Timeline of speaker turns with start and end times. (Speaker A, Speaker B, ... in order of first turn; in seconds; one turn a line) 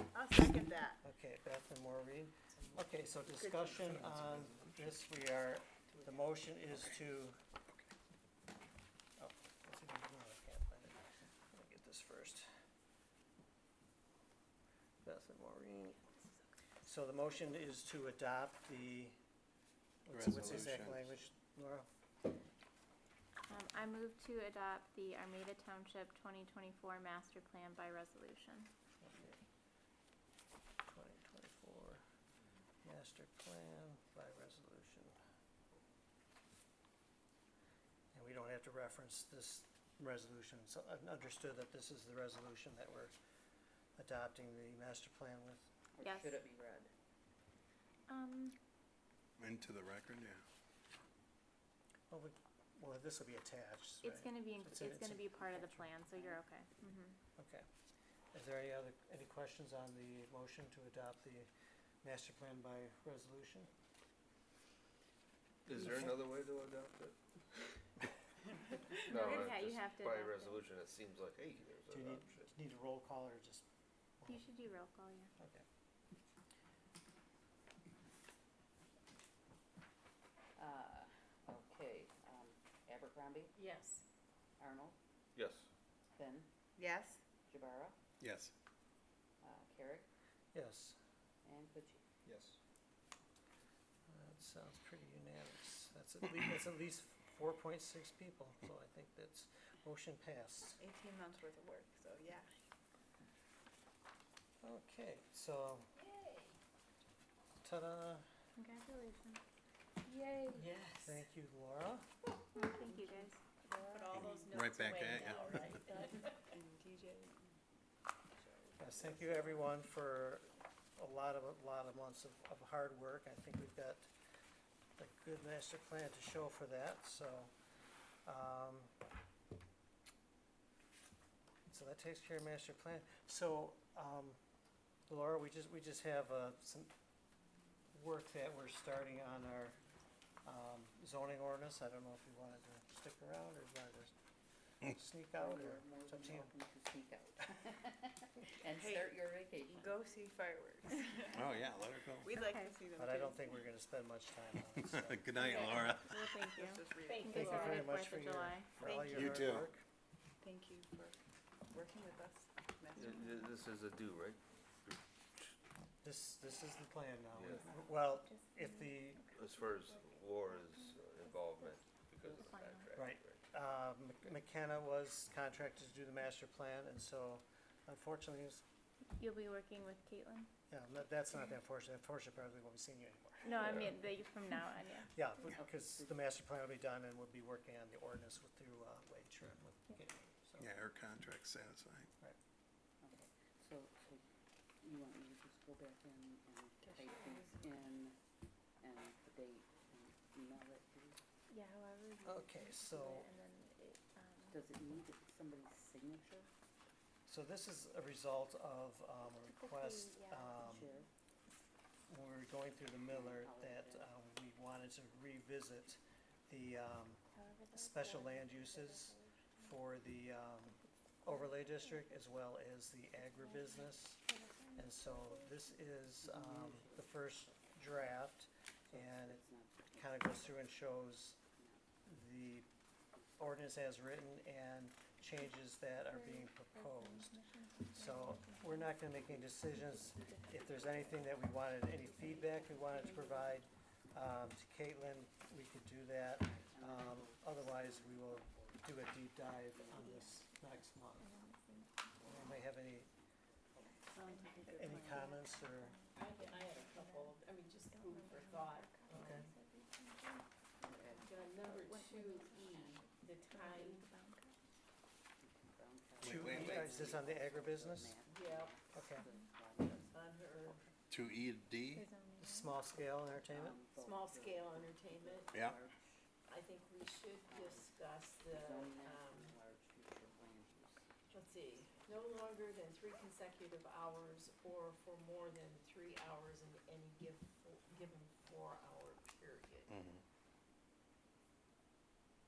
Speaker A: 0.4-0.8
Speaker B: 1.0-7.3
Speaker C: 4.0-4.7
Speaker D: 5.9-6.2
Speaker B: 9.2-10.9
Speaker B: 11.5-12.5
Speaker B: 15.0-16.0
Speaker B: 16.8-19.2
Speaker B: 20.0-21.9
Speaker C: 20.1-21.1
Speaker E: 23.4-28.7
Speaker B: 29.0-29.4
Speaker B: 30.9-32.0
Speaker B: 32.8-35.1
Speaker B: 38.1-43.1
Speaker B: 44.0-45.7
Speaker F: 45.9-46.9
Speaker E: 46.0-46.3
Speaker E: 48.1-48.6
Speaker C: 49.4-50.4
Speaker B: 52.1-55.9
Speaker E: 54.0-57.2
Speaker B: 57.4-57.6
Speaker B: 58.3-61.5
Speaker B: 62.0-63.7
Speaker G: 65.7-67.2
Speaker E: 69.0-70.6
Speaker G: 69.0-72.5
Speaker B: 71.9-73.6
Speaker E: 74.2-75.3
Speaker B: 75.4-75.6
Speaker F: 80.5-83.5
Speaker D: 83.5-84.0
Speaker F: 84.6-85.0
Speaker G: 85.3-85.7
Speaker F: 86.1-86.5
Speaker A: 86.8-87.2
Speaker F: 87.5-88.0
Speaker C: 88.2-88.5
Speaker F: 89.4-90.1
Speaker B: 90.5-91.0
Speaker F: 91.4-92.0
Speaker B: 94.1-100.8
Speaker A: 100.8-102.5
Speaker B: 104.6-105.9
Speaker D: 105.9-106.5
Speaker B: 107.6-108.2
Speaker E: 108.5-109.4
Speaker A: 110.1-110.6
Speaker D: 110.5-111.2
Speaker B: 111.0-112.0
Speaker E: 112.5-113.4
Speaker A: 112.9-114.0
Speaker D: 113.8-116.6
Speaker C: 114.1-115.8
Speaker A: 116.5-117.5
Speaker A: 118.4-118.8
Speaker B: 118.8-124.1
Speaker B: 125.0-127.5
Speaker B: 128.2-128.9
Speaker B: 131.7-134.4
Speaker B: 135.1-136.9
Speaker B: 137.9-139.8
Speaker B: 140.4-144.1
Speaker B: 144.8-146.5
Speaker F: 145.3-150.0
Speaker A: 148.7-149.2
Speaker A: 149.7-151.4
Speaker C: 151.3-152.3
Speaker A: 152.2-153.4
Speaker E: 152.3-152.8
Speaker B: 152.9-155.5
Speaker C: 154.8-156.5
Speaker E: 155.4-158.7
Speaker A: 156.5-157.3
Speaker B: 157.2-159.8
Speaker A: 158.8-159.2
Speaker C: 159.1-159.7
Speaker A: 160.4-161.2
Speaker A: 161.7-163.5
Speaker G: 162.9-165.0
Speaker B: 166.0-169.3
Speaker G: 167.3-167.7
Speaker E: 168.0-173.1
Speaker G: 169.3-173.4
Speaker B: 172.9-178.6
Speaker E: 179.2-180.5
Speaker B: 180.7-183.8
Speaker E: 183.4-185.2
Speaker G: 183.5-184.0
Speaker B: 185.1-190.7
Speaker F: 185.6-186.2
Speaker C: 190.6-192.1
Speaker F: 193.0-194.2
Speaker F: 194.8-198.2
Speaker A: 196.8-197.5
Speaker F: 198.8-201.2
Speaker E: 201.5-204.6
Speaker B: 202.2-203.3
Speaker F: 204.5-206.5
Speaker B: 207.2-210.9
Speaker E: 209.4-211.0
Speaker F: 210.7-211.0
Speaker B: 212.1-217.2
Speaker F: 213.1-214.1
Speaker E: 217.3-219.6
Speaker B: 217.7-224.2
Speaker E: 220.7-222.1
Speaker E: 223.2-225.8
Speaker B: 224.8-229.4
Speaker F: 226.2-227.2
Speaker F: 228.8-230.7
Speaker B: 229.9-231.4
Speaker F: 231.6-231.8
Speaker B: 232.1-232.7
Speaker B: 233.4-237.4
Speaker E: 236.1-241.4
Speaker B: 237.9-251.3
Speaker E: 242.0-243.5
Speaker F: 246.4-248.9
Speaker F: 249.8-250.2
Speaker E: 249.8-252.6
Speaker B: 252.2-253.1
Speaker F: 253.7-255.2
Speaker E: 254.1-257.4
Speaker B: 254.8-255.9
Speaker D: 256.1-259.4
Speaker E: 257.9-262.9
Speaker B: 259.1-259.5
Speaker F: 260.8-261.4
Speaker D: 261.2-264.1
Speaker E: 263.4-264.6
Speaker F: 265.4-270.9
Speaker C: 266.2-267.0
Speaker B: 266.2-268.2
Speaker D: 268.2-268.8
Speaker B: 268.9-269.2
Speaker E: 269.1-269.4
Speaker D: 269.8-270.8
Speaker C: 271.1-272.1
Speaker E: 271.9-272.8
Speaker B: 272.4-273.8
Speaker F: 273.3-276.3
Speaker D: 273.9-275.6
Speaker D: 276.5-279.6
Speaker F: 277.5-281.1
Speaker D: 281.3-289.9
Speaker C: 289.9-290.2